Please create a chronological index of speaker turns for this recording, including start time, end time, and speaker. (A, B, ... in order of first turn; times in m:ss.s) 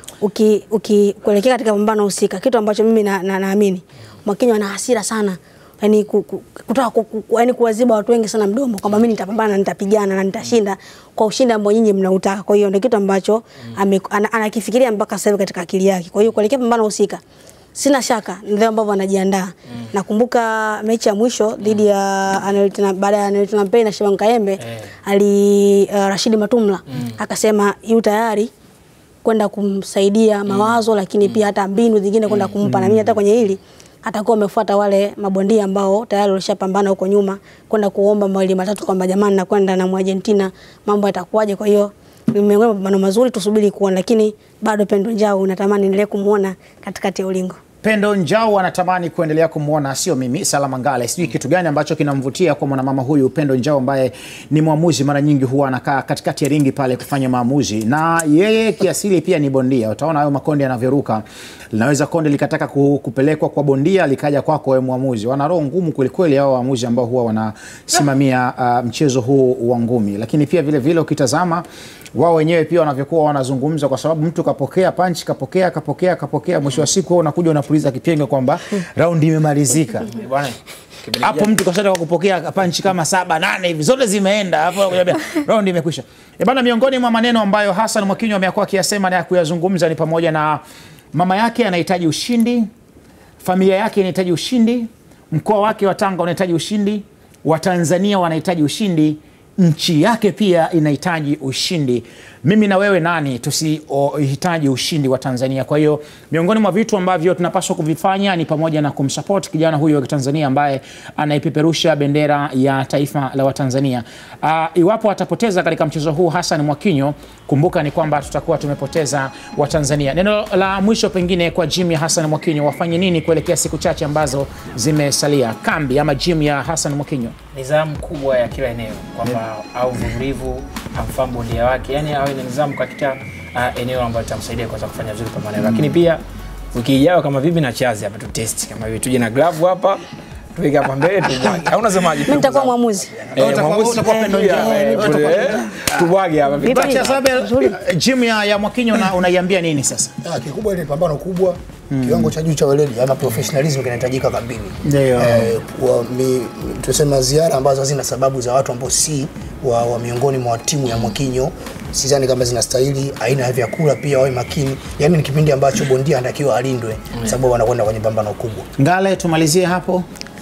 0:00.2-0:17.2 A
0:17.8-0:28.5 A
0:24.6-0:24.9 B
0:26.9-0:27.2 B
0:29.2-0:47.6 A
0:32.3-0:32.6 B
0:32.6-0:33.0 C
0:47.8-1:20.2 C
1:20.1-1:21.5 B
1:21.2-1:30.6 C
1:31.1-1:32.7 C
1:33.4-2:07.4 C
2:07.5-2:16.2 B
2:15.6-2:15.9 C
2:16.7-2:22.7 B
2:22.2-2:23.2 A
2:23.3-2:27.2 B
2:23.4-2:30.1 C
2:24.1-2:25.8 A
2:26.6-2:27.7 A
2:30.2-2:48.7 D
2:31.9-2:32.3 C
2:34.8-2:35.5 C
2:48.8-2:50.1 C